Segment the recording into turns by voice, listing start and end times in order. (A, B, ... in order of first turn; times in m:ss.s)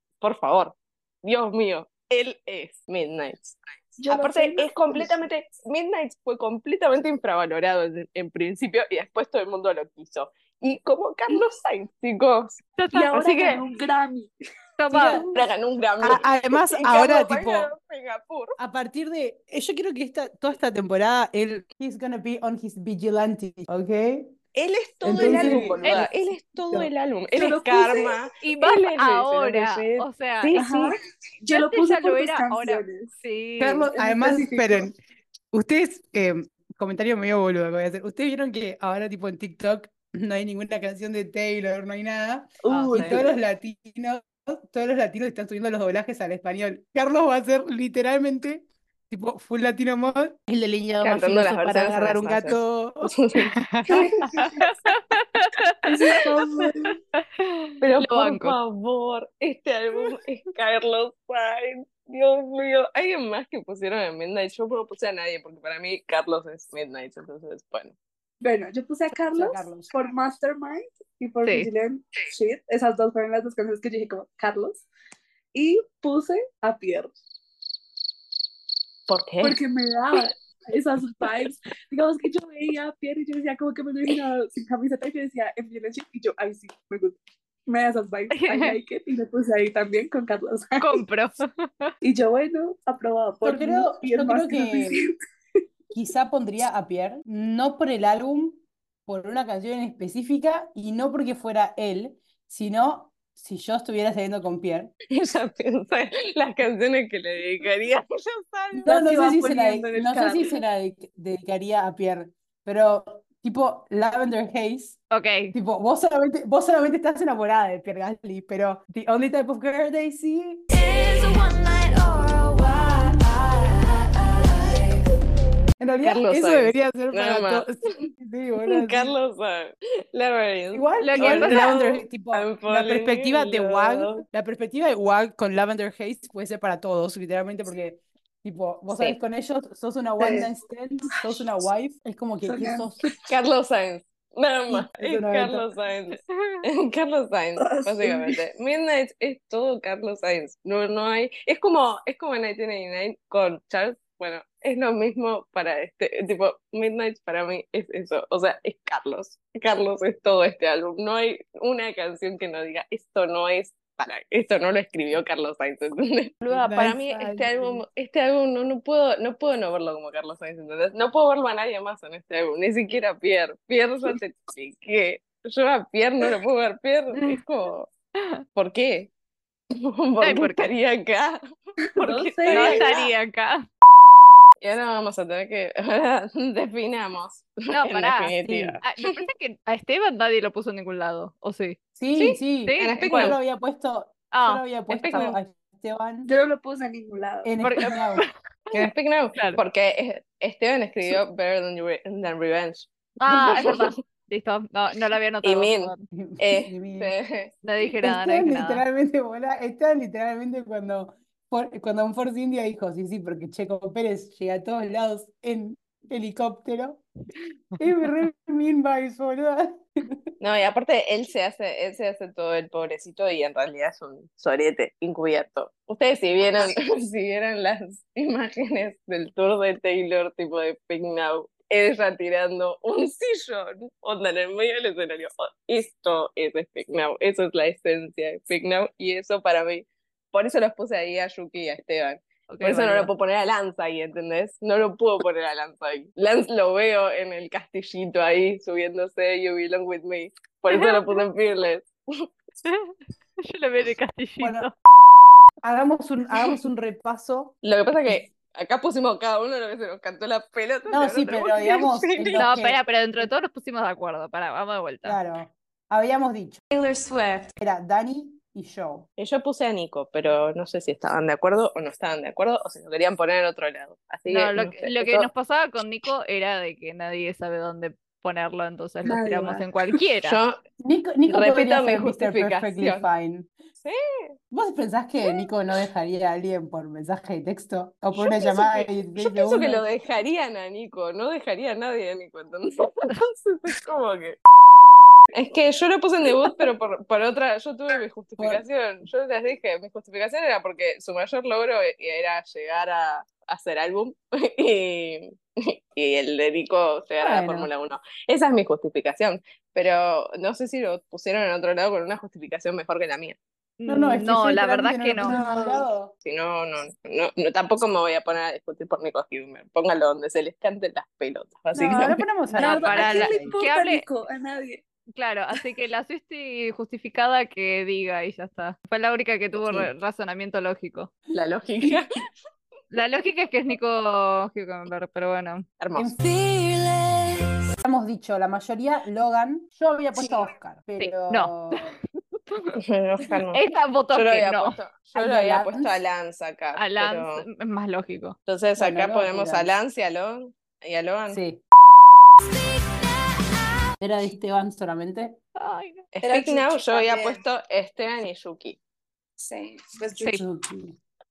0:00.2-0:12.6 A
0:04.0-0:05.1 B
0:12.8-0:13.1 C
0:12.9-0:14.3 B
0:13.1-0:13.6 A
0:14.8-0:15.2 C
0:14.9-0:15.3 D
0:14.9-0:15.4 B
0:15.3-0:18.6 A
0:16.0-0:17.7 D
0:18.6-0:24.3 D
0:24.6-0:30.9 A
0:25.0-0:26.9 D
0:25.2-0:25.7 B
0:27.4-0:28.1 B
0:28.4-0:30.6 C
0:30.6-0:33.1 B
0:31.5-0:33.9 C
0:33.6-0:35.0 D
0:33.9-0:34.9 B
0:35.5-0:53.1 D
0:42.7-0:43.2 C
0:42.8-0:43.3 B
0:51.0-0:53.5 A
0:53.9-0:54.7 B
0:54.4-0:55.8 C
0:55.9-0:57.0 B
0:57.1-0:58.6 C
0:57.8-1:08.0 A
1:08.4-1:14.9 B
1:09.3-1:09.9 D
1:11.4-1:11.7 C
1:15.6-1:17.1 B
1:19.1-1:19.6 A
1:19.4-1:31.0 B
1:28.3-1:28.8 C
1:30.8-1:31.9 C
1:32.0-1:35.1 B
1:33.4-1:35.0 D
1:35.9-1:44.9 D
1:45.1-1:48.9 A
1:48.7-1:55.0 D
1:48.9-1:50.5 B
1:55.1-1:55.5 C
1:55.5-2:00.6 D
2:00.7-2:05.2 E
2:05.8-2:09.1 D
2:06.0-2:07.7 A
2:08.6-2:14.2 A
2:10.7-2:23.1 D
2:11.0-2:11.7 C
2:20.2-2:20.5 B
2:22.4-2:23.2 B
2:23.3-2:57.9 A
2:24.7-2:25.7 D
2:26.3-2:26.6 C
2:27.6-2:28.4 B
2:46.5-2:47.8 D
2:58.6-2:59.1 A
2:59.8-3:01.4 A
3:00.2-3:00.7 C
3:02.0-3:02.9 B
3:02.0-3:03.1 A
3:02.5-3:03.6 C
3:04.6-3:09.3 A
3:07.7-3:13.4 C
3:08.4-3:08.8 D
3:12.0-3:16.3 D
3:12.8-3:13.4 A
3:14.3-3:15.3 C
3:14.9-3:15.4 A
3:16.2-3:17.5 B
3:17.4-3:18.2 D
3:17.6-3:19.6 C
3:18.7-3:23.9 A
3:23.2-3:26.0 C
3:25.4-3:27.5 A
3:26.1-3:27.1 D
3:27.6-3:28.8 C
3:28.0-3:37.0 D
3:37.8-3:40.2 D
3:40.4-4:12.3 A
4:02.5-4:03.1 C
4:10.7-4:11.0 C
4:12.7-4:14.7 C
4:14.4-4:14.7 D
4:15.6-4:17.5 D
4:17.6-4:22.5 A
4:20.9-4:22.8 D
4:22.4-4:25.2 C
4:25.0-4:26.6 D
4:26.7-4:27.5 E
4:27.6-4:29.1 D
4:29.2-4:35.3 A
4:34.3-4:40.4 C
4:39.0-4:39.7 B
4:40.2-4:40.6 A
4:40.8-4:43.5 D
4:41.3-4:43.1 A
4:43.8-4:44.4 A
4:44.5-4:49.9 D
4:49.2-4:54.4 A
4:55.3-5:13.4 A
5:07.2-5:07.7 D
5:13.8-5:15.4 C
5:13.9-5:16.1 D
5:15.2-5:15.8 B
5:16.2-5:22.2 A
5:21.7-5:23.6 D
5:22.5-5:24.0 C
5:22.6-5:24.8 B
5:25.2-5:31.1 C
5:31.3-5:32.1 A
5:32.9-5:35.7 C
5:35.8-5:36.1 A
5:36.0-5:36.2 D
5:36.2-5:37.8 E
5:37.8-5:41.9 D
5:41.0-5:41.9 C
5:42.5-5:42.8 C
5:42.8-5:43.6 A
5:43.5-5:44.8 C
5:44.1-5:47.5 A
5:45.1-5:46.0 D
5:46.8-5:48.4 C
5:48.5-5:51.4 A
5:48.8-5:49.7 D
5:51.3-5:51.6 D
5:52.4-5:54.0 E
5:54.0-5:55.4 D
5:55.6-5:56.1 C
5:56.2-5:58.8 A
5:56.2-5:57.4 B
5:59.4-6:00.3 B
6:00.3-6:01.0 D